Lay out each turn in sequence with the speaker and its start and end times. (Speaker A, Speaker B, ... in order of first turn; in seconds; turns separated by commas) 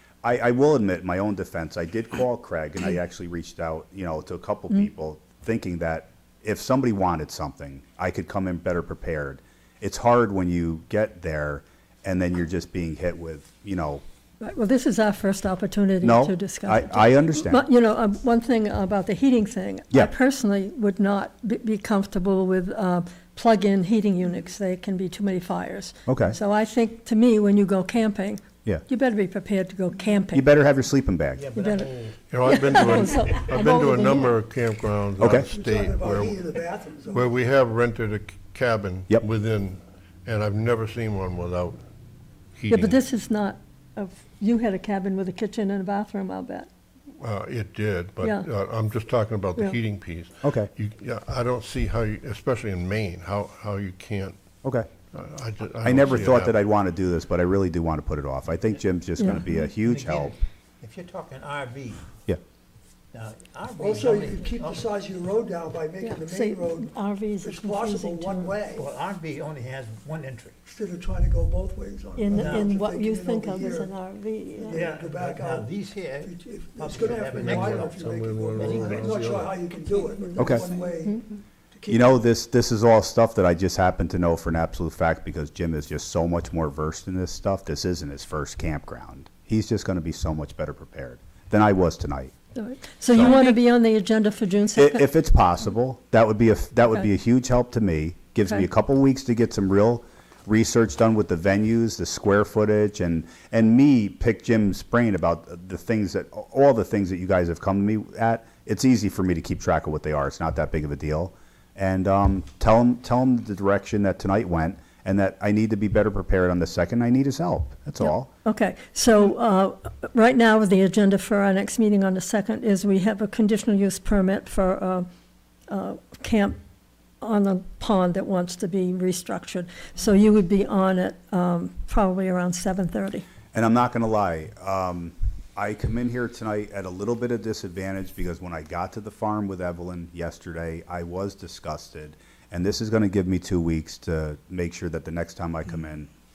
Speaker A: 0.2-14.0, Speaker B: 14.4-30.6, Speaker A: 16.0-17.6, Speaker A: 26.1-26.4, Speaker A: 30.3-31.5, Speaker C: 31.3-33.1, Speaker B: 31.5-31.9, Speaker D: 32.3-36.5, Speaker B: 32.4-34.4, Speaker A: 35.2-35.5, Speaker E: 35.2-37.3, Speaker D: 37.0-41.8, Speaker D: 42.5-43.0, Speaker B: 42.7-46.7, Speaker D: 47.2-54.4, Speaker B: 48.2-48.5, Speaker A: 50.4-50.7, Speaker A: 54.6-54.9, Speaker D: 55.1-56.5, Speaker A: 55.8-60.3, Speaker B: 59.2-59.5, Speaker C: 59.3-62.0, Speaker C: 63.1-64.9, Speaker E: 63.8-68.9, Speaker B: 66.0-68.5, Speaker C: 68.7-70.6, Speaker E: 70.7-73.9, Speaker B: 72.2-74.8, Speaker C: 72.3-72.8, Speaker E: 74.6-81.2, Speaker C: 74.7-80.9, Speaker D: 77.3-79.5, Speaker A: 80.4-80.6, Speaker E: 81.7-82.1, Speaker A: 81.9-92.3, Speaker B: 92.5-95.1, Speaker A: 93.1-93.4, Speaker A: 94.8-118.3, Speaker B: 118.0-125.1, Speaker B: 125.7-126.6, Speaker B: 127.2-133.3, Speaker A: 133.5-146.1